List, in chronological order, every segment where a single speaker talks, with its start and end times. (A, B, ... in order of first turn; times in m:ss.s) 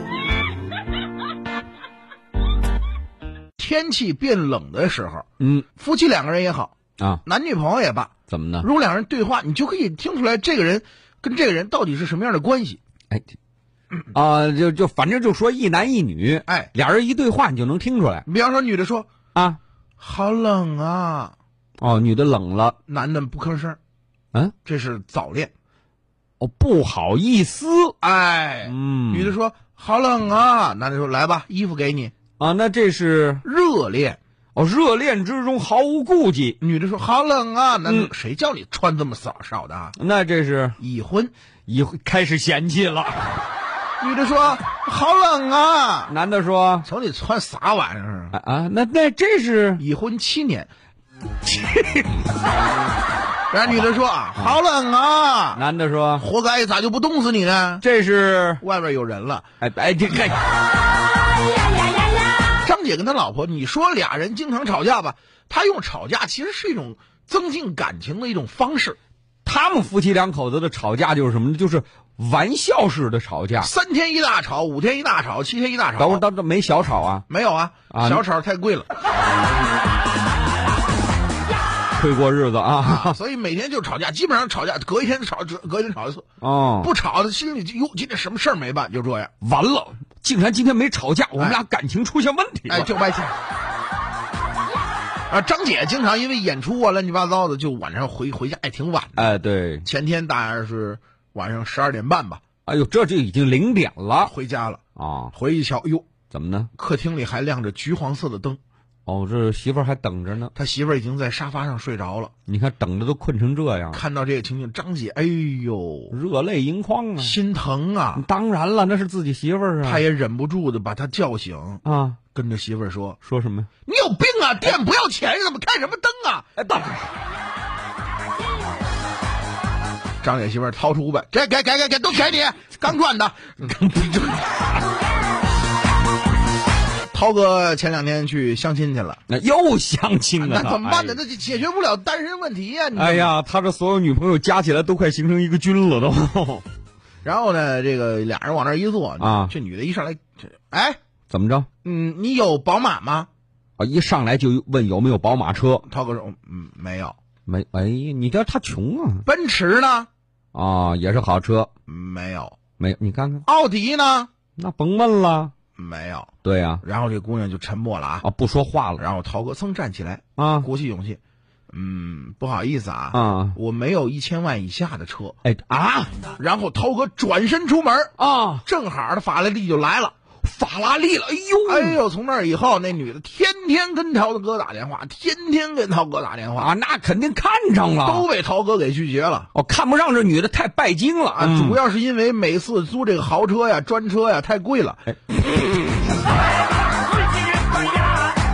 0:03.6-0:12.8 A
0:05.4-0:05.7 B
0:08.3-0:08.7 B
0:14.1-0:18.3 B
0:16.5-0:16.7 A
0:18.2-0:19.1 A
0:19.4-0:19.6 B
0:20.0-0:21.4 A
0:21.8-0:22.8 B
0:22.9-0:23.8 A
0:24.6-0:25.5 A
0:26.4-0:28.0 B
0:28.0-0:32.1 A
0:28.7-0:29.4 B
0:32.4-0:33.4 B
0:33.4-0:34.2 A
0:34.6-0:36.6 B
0:36.6-0:40.0 A
0:40.0-0:40.8 B
0:40.8-0:41.3 A
0:41.7-0:43.4 B
0:44.0-0:46.2 A
0:46.1-0:46.9 B
0:46.8-0:48.4 A
0:48.3-0:49.8 B
0:49.8-0:50.7 A
0:51.4-0:52.3 B
0:53.5-0:55.6 A
0:55.6-0:56.3 B
0:56.1-0:57.9 A
0:57.8-0:58.6 B
0:58.6-0:59.5 A
0:59.6-1:00.4 B
1:02.4-1:09.0 A
1:09.4-1:13.7 B
1:13.6-1:16.3 A
1:16.0-1:17.2 B
1:17.3-1:18.9 A
1:17.9-1:18.2 B
1:21.9-1:23.2 B
1:22.8-1:29.3 A
1:26.4-1:26.9 B
1:29.4-1:32.9 B
1:31.3-1:31.6 A
1:32.7-1:33.4 A
1:35.3-1:42.4 A
1:39.2-1:39.9 B
1:42.7-1:44.3 B
1:44.2-1:46.1 A
1:45.0-1:45.3 B
1:46.3-1:46.7 B
1:46.8-1:48.6 A
1:49.1-1:50.5 B
1:50.5-1:52.3 A
1:52.5-1:54.0 B
1:53.9-1:56.2 A
1:56.1-1:57.4 B
1:57.2-1:58.3 A
1:58.1-2:00.0 B
1:59.8-2:03.2 A
2:01.8-2:02.2 B
2:03.2-2:03.7 B
2:03.8-2:06.5 A
2:06.6-2:07.2 B
2:10.2-2:14.6 A
2:13.7-2:14.1 B
2:17.1-2:19.2 A
2:19.3-2:21.2 B
2:20.4-2:23.4 A
2:22.9-2:26.7 B
2:27.2-2:31.0 A
2:29.2-2:29.5 B
2:31.3-2:31.7 B
2:31.8-2:33.3 A
2:33.8-2:35.9 B
2:35.8-2:37.2 A
2:37.5-2:39.2 B
2:39.2-2:40.1 A
2:40.5-2:41.7 B
2:41.9-2:42.6 A
2:42.8-2:43.4 B
2:43.4-2:44.3 A
2:44.6-2:45.5 B
2:45.8-2:48.3 A
2:46.4-2:46.8 B
2:48.2-2:49.1 B
2:49.0-2:55.4 A
2:50.4-2:50.7 B
2:53.1-2:53.6 B
2:55.4-2:56.2 B
2:56.3-3:00.2 A
2:58.2-2:58.7 B
3:00.4-3:02.0 B
3:01.6-3:06.8 A
3:06.6-3:08.3 B
3:08.0-3:09.5 A
3:09.5-3:11.8 B
3:11.3-3:15.0 A